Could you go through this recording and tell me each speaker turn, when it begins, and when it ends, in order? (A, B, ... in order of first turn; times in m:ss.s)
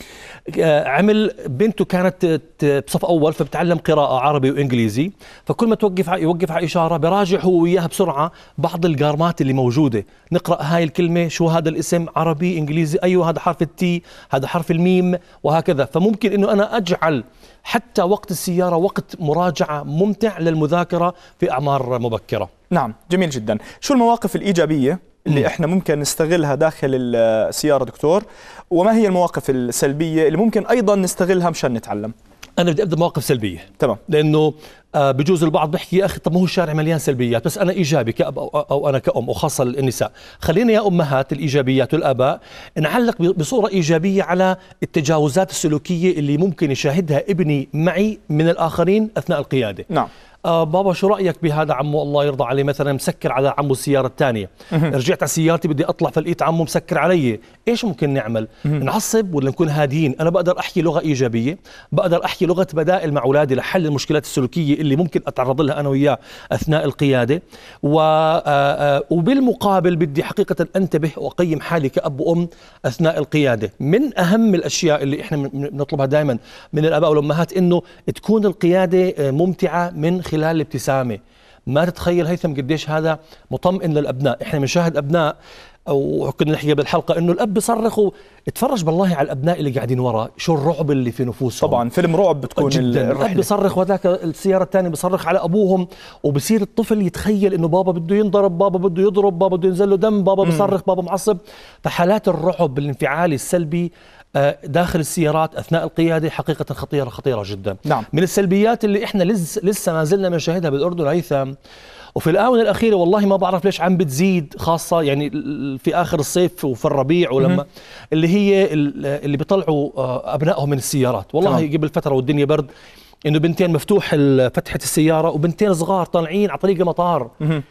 0:00.5-0:22.5 A
0:22.7-0:32.1 B
0:32.6-0:49.9 A
0:50.4-1:25.3 A
1:25.9-1:31.8 A
1:31.6-1:33.5 B
1:32.6-1:51.5 A
1:40.4-1:40.7 B
1:52.2-2:02.7 A
2:03.2-2:07.3 A